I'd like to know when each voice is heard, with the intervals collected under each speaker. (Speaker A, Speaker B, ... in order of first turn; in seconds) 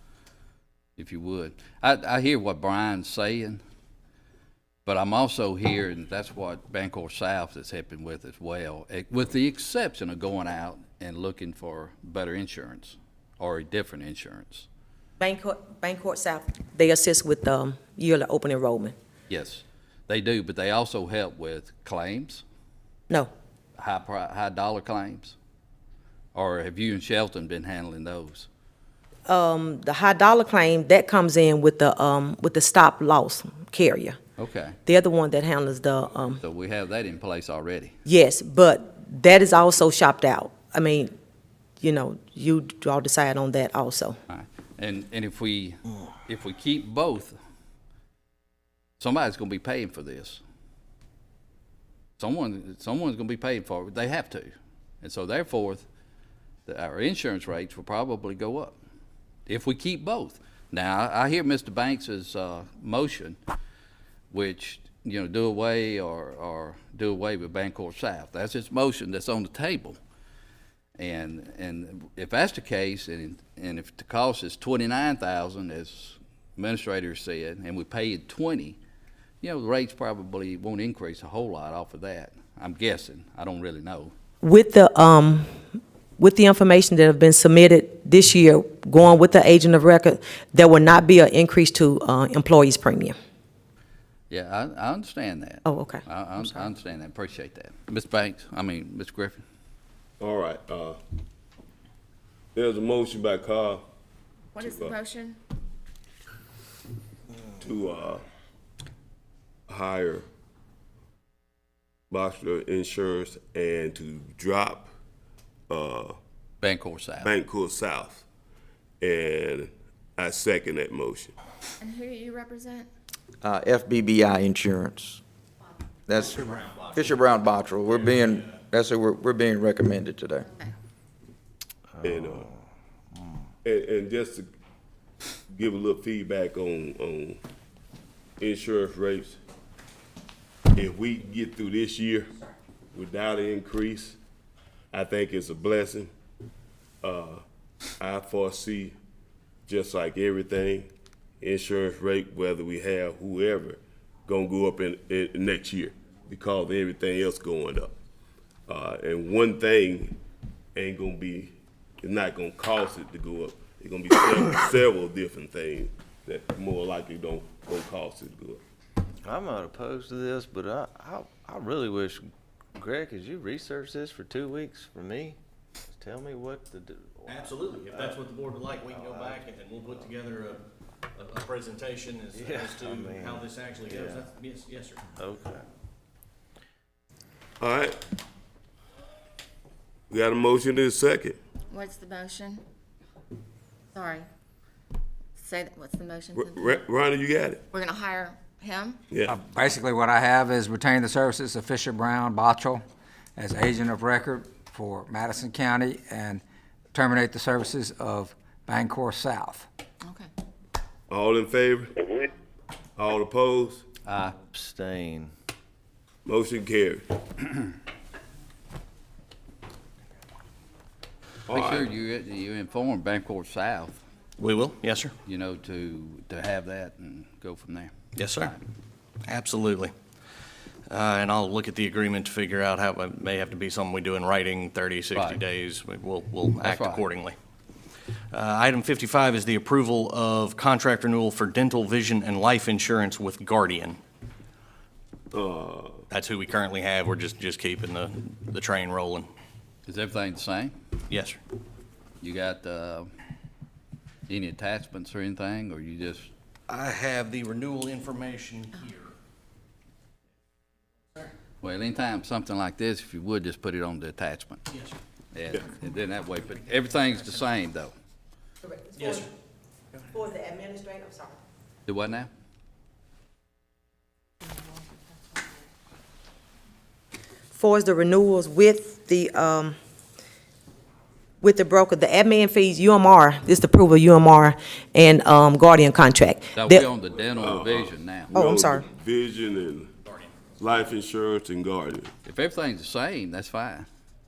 Speaker A: 1.0-3.6, 4.8-14.7, 19.3-22.4, 23.8-25.3, 26.3-28.5, 34.4-34.8, 36.4-37.9, 44.3-47.4, 49.0-50.4, 52.2-55.8, 56.6-58.8, 59.5-63.4, 64.3-70.0, 71.0-78.8, 79.4-84.1, 94.3-99.4, 116.6-117.3, 214.1-214.3, 221.5-224.0, 225.2-228.6, 235.1-235.4, 236.6-237.0, 249.8-250.7, 252.2-253.1, 254.3-256.3, 261.6-264.6, 265.3-267.9, 271.9-272.3, 286.5-288.3, 292.2-293.9
Speaker B: 15.2-18.9, 29.3-34.2, 34.8-36.4, 38.0-41.1, 41.8-44.2, 84.4-85.5, 86.2-93.1, 95.7-96.6, 268.6-269.3, 270.1-271.4, 277.5-279.7, 281.4-286.9, 288.3-288.8
Speaker C: 100.2-101.0, 102.5-103.8, 104.7-105.0, 107.6-108.2, 109.7-110.2, 112.1-114.9, 115.7-116.2, 117.2-118.2, 119.0-121.3, 132.0-132.5, 133.6-134.5, 135.5-137.4, 138.4-139.4, 140.7-142.3, 142.9-144.2, 144.9-146.1, 147.0-147.4, 148.0-148.9, 149.7-157.9, 158.7-160.2, 160.7-168.6, 187.6-188.0, 190.1-191.4, 196.3-197.7, 199.1-199.4, 211.1-212.3, 212.9-213.8, 216.2-217.2, 221.5-221.9, 245.3-246.0, 287.3-289.9, 290.6-292.1
Speaker D: 104.5-105.4, 121.8-122.9, 191.7-192.6, 193.9-194.2, 195.4-196.8, 197.7-199.0, 210.0-210.3
Speaker E: 123.4-125.2, 126.1-130.5
Speaker F: 132.0-132.4, 169.3-169.7, 170.2-170.8, 171.5-172.2, 172.8-175.3, 176.1-176.9, 182.7-183.4, 183.9-184.2, 185.2-185.6, 214.6-215.2
Speaker G: 177.3-180.6, 181.2-185.0, 224.4-225.1, 228.2-228.5, 229.2-229.9, 230.9-237.3, 238.3-244.0, 246.1-249.3, 251.1-251.4, 256.7-259.1, 264.7-264.9, 269.0-269.3
Speaker H: 199.2-202.8, 203.4-209.7